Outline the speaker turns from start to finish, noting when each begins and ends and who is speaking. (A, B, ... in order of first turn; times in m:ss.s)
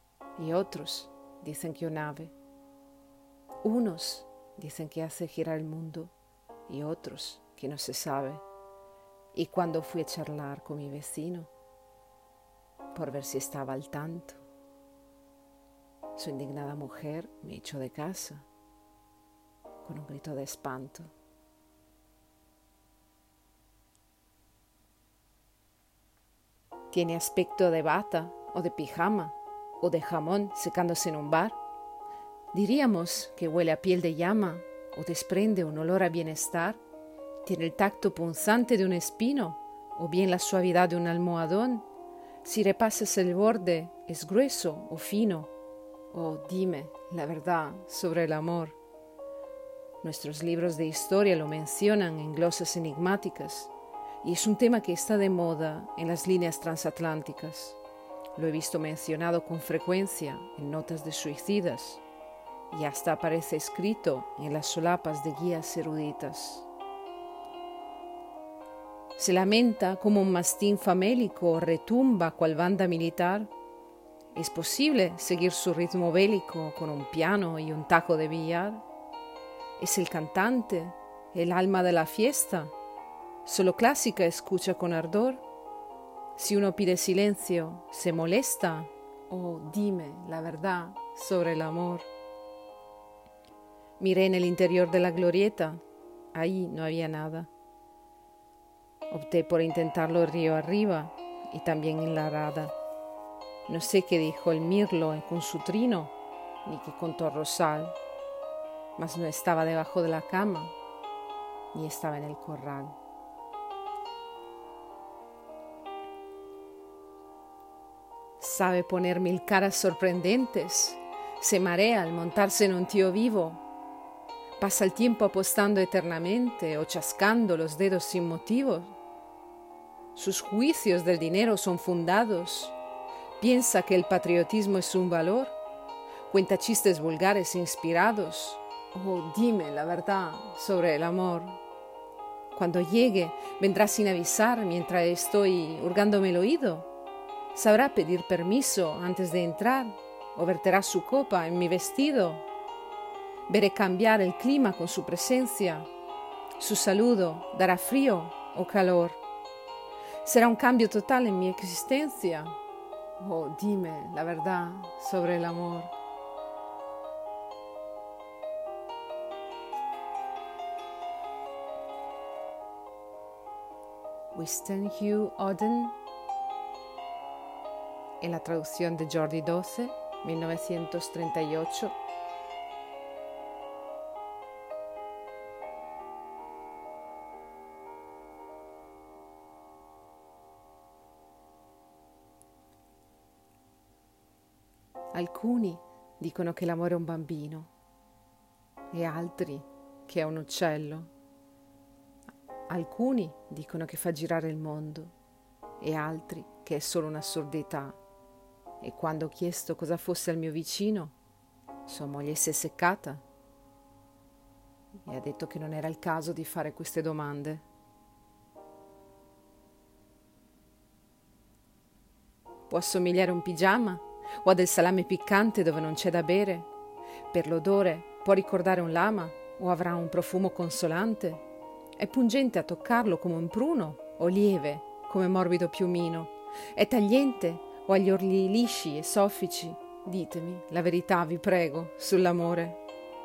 0:00.4-0:02.4 A
0:03.6-0:06.1 A
0:06.7-0:08.4 A
0:09.4-0:11.5 A
0:12.9-0:14.4 A
0:16.2-0:18.5 A
0:19.8-0:21.1 A
0:26.9-0:31.6 A
0:32.5-0:36.8 A
0:37.4-0:41.8 A
0:42.4-0:45.5 A
0:46.1-0:48.8 A
0:50.0-0:53.7 A
0:54.2-0:57.8 A
0:58.4-1:02.0 A
1:02.7-1:06.7 A
1:09.2-1:13.5 A
1:14.3-1:18.8 A
1:19.8-1:22.7 A
1:23.4-1:25.4 A
1:26.4-1:32.1 A
1:34.0-1:35.8 A
1:36.3-1:37.5 A
1:39.1-1:42.7 A
1:43.7-1:46.1 A
1:46.6-1:48.0 A
1:49.0-1:50.7 A
1:51.7-1:53.0 A
1:58.4-2:03.6 A
2:04.6-2:08.9 A
2:10.2-2:12.8 A
2:13.4-2:15.6 A
2:16.3-2:21.6 A
2:22.5-2:26.9 A
2:27.5-2:32.4 A
2:33.5-2:35.9 A
2:36.6-2:39.2 A
2:40.2-2:42.6 A
2:43.2-2:45.9 A
2:54.3-2:56.0 A
2:58.2-3:02.0 A
3:15.1-3:17.7 A
3:18.9-3:21.1 A
3:22.7-3:25.1 A
3:25.8-3:28.0 A
3:28.8-3:31.2 A
3:31.9-3:33.2 A
3:35.1-3:37.6 A
3:42.7-3:46.7 A
3:47.3-3:51.4 A
3:52.0-4:02.8 A